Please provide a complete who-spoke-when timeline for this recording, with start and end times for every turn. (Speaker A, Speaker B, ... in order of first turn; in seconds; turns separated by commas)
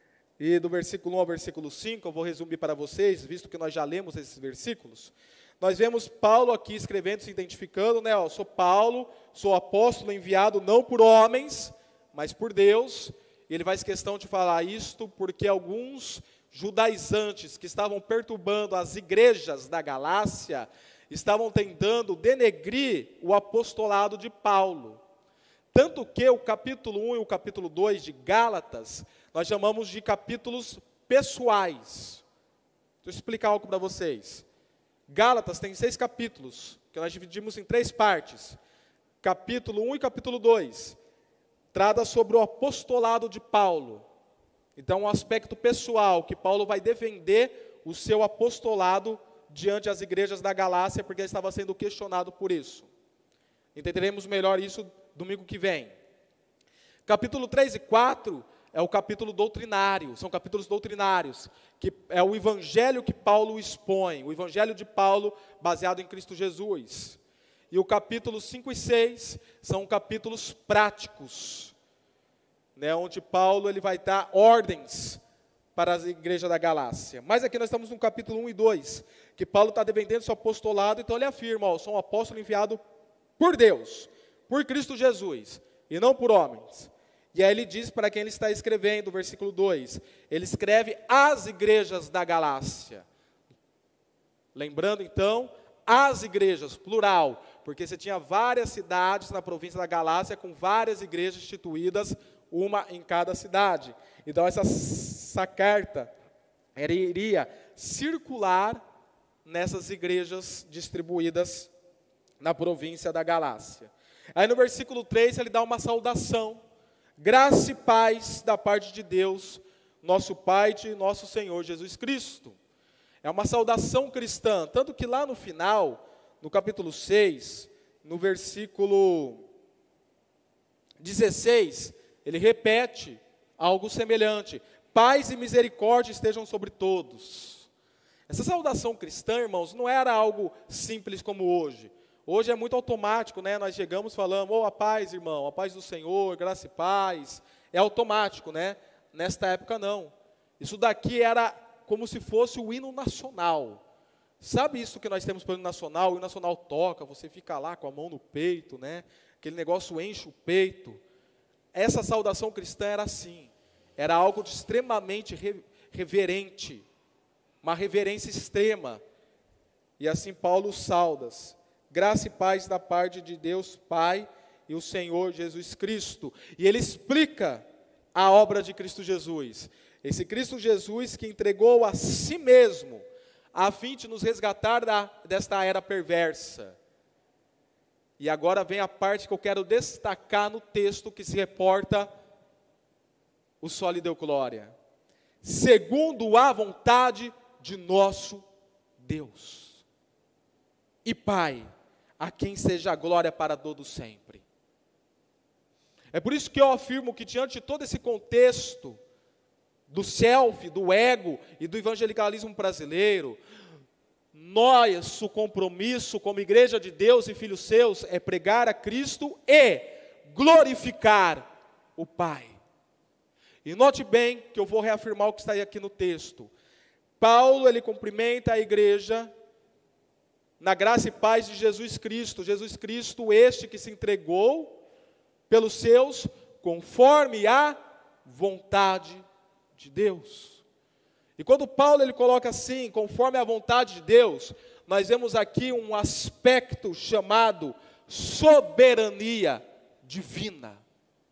Speaker A: 0.4-25.0, Speaker A: 25.7-32.2, Speaker A: 33.0-34.5, Speaker A: 35.1-38.6, Speaker A: 39.2-41.0, Speaker A: 41.7-44.1, Speaker A: 44.8-52.9, Speaker A: 53.8-55.9, Speaker A: 57.1-67.2, Speaker A: 67.7-71.7, Speaker A: 72.8-75.2, Speaker A: 75.8-82.8, Speaker A: 83.4-93.0, Speaker A: 94.5-106.1, Speaker A: 106.8-108.8, Speaker A: 109.5-111.7, Speaker A: 112.4-116.6, Speaker A: 117.2-122.6, Speaker A: 123.2-129.4, Speaker A: 131.0-137.7, Speaker A: 138.3-153.8, Speaker A: 154.4-161.0, Speaker A: 161.7-166.8, Speaker A: 167.6-169.0, Speaker A: 170.0-186.8, Speaker A: 188.2-192.1, Speaker A: 193.6-194.7, Speaker A: 195.4-198.4, Speaker A: 199.0-199.8, Speaker A: 201.1-201.7, Speaker A: 202.2-204.4, Speaker A: 206.1-209.0, Speaker A: 209.9-213.4, Speaker A: 214.3-222.6, Speaker A: 223.7-226.5, Speaker A: 227.2-229.3, Speaker A: 230.6-234.8, Speaker A: 235.5-239.2, Speaker A: 239.8-240.6, Speaker A: 241.4-250.8